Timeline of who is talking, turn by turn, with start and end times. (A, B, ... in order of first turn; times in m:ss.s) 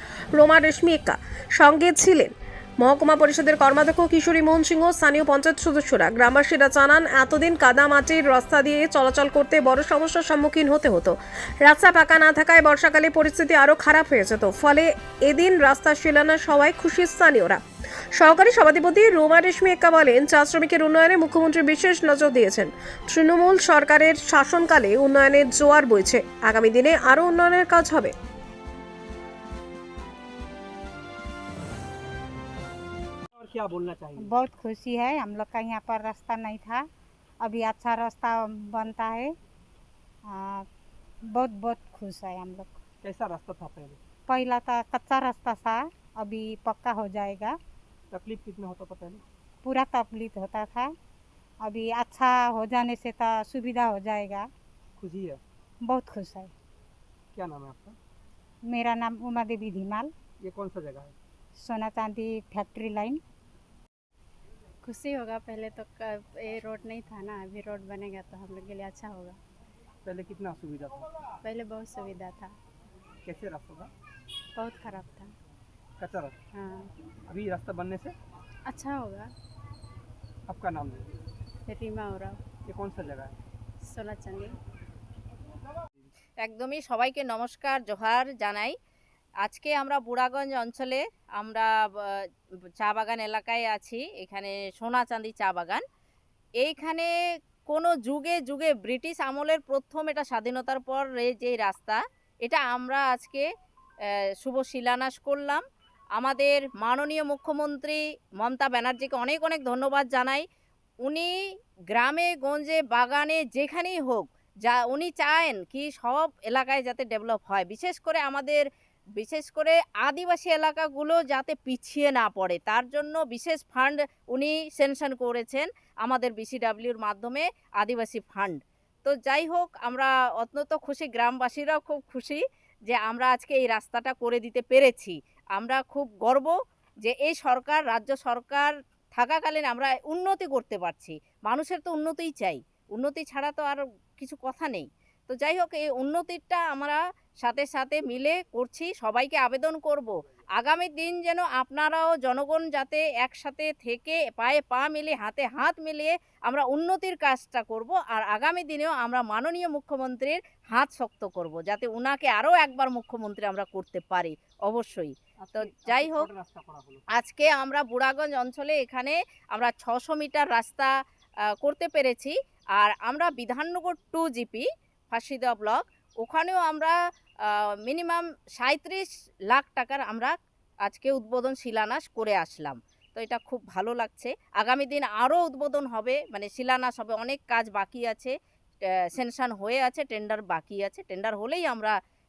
0:00.4-0:17.6 A
0:18.2-0:28.1 A
0:33.3-0:34.3 B
0:34.2-0:36.8 C
0:37.4-0:39.3 C
0:40.2-0:40.6 C
0:41.3-0:42.8 C
0:43.0-0:44.0 B
0:44.3-0:47.6 C
0:48.1-0:49.2 B
0:49.6-0:50.9 C
0:51.6-0:54.5 C
0:55.0-0:55.4 B
0:55.8-0:56.5 C
0:57.3-0:58.0 B
0:58.7-1:00.1 C
1:00.4-1:01.1 B
1:01.6-1:03.2 C
1:04.9-1:09.3 D
1:10.0-1:11.1 B
1:11.4-1:12.5 D
1:13.2-1:13.9 B
1:14.6-1:15.3 D
1:16.0-1:16.4 B
1:16.5-1:16.9 D
1:17.3-1:18.2 B
1:18.7-1:19.2 D
1:20.5-1:21.1 B
1:21.7-1:22.4 D
1:22.7-1:23.4 B
1:23.8-1:24.6 D
1:26.4-1:28.8 E
1:29.4-1:32.3 E
1:32.8-1:35.8 E
1:36.6-1:37.1 E
1:37.7-1:43.5 E
1:44.1-1:45.6 E
1:46.2-1:50.4 E
1:51.0-1:58.7 E
1:59.2-2:46.3 E
2:45.4-2:47.0 B
2:47.1-2:50.9 E
2:51.6-3:00.3 E
3:00.8-3:08.3 E
3:08.9-3:11.9 E